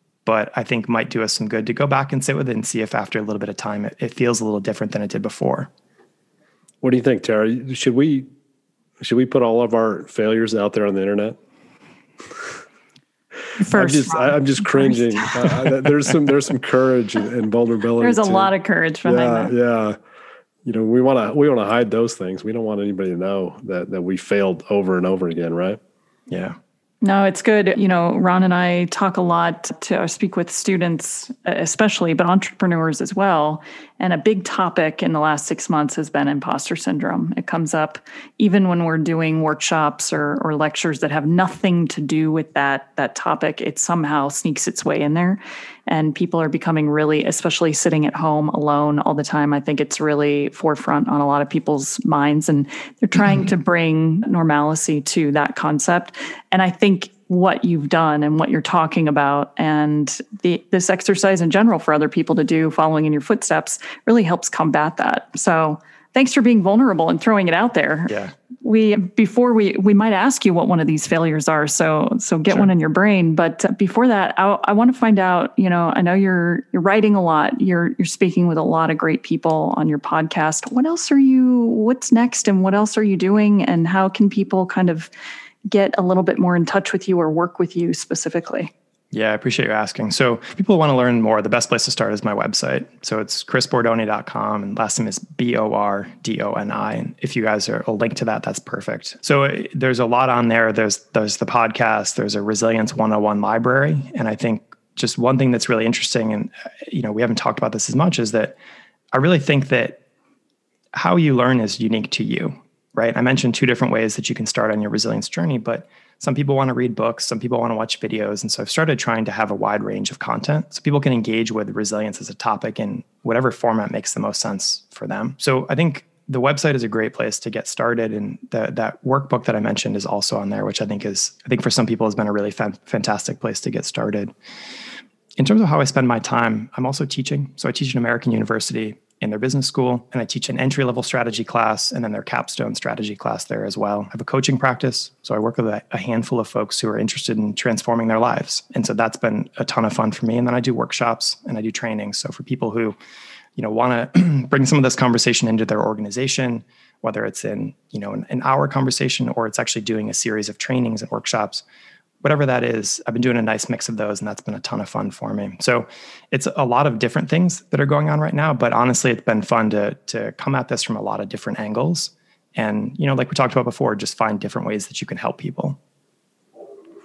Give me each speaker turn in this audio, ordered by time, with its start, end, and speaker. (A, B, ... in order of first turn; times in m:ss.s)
0:00.2-0:05.7 A
0:06.8-0:08.3 B
0:09.0-0:11.4 B
0:13.6-0:15.8 C
0:13.6-0:18.5 B
0:18.0-0:19.5 C
0:19.0-0:20.0 B
0:20.6-0:25.8 B
0:26.3-0:26.6 A
0:27.0-1:25.1 C
1:08.1-1:08.3 A
1:25.7-1:28.7 C
1:29.1-1:48.6 A
1:49.1-1:50.0 A
1:50.9-2:14.3 A
2:15.4-2:33.0 A
2:33.6-2:41.6 A
2:42.2-2:55.8 A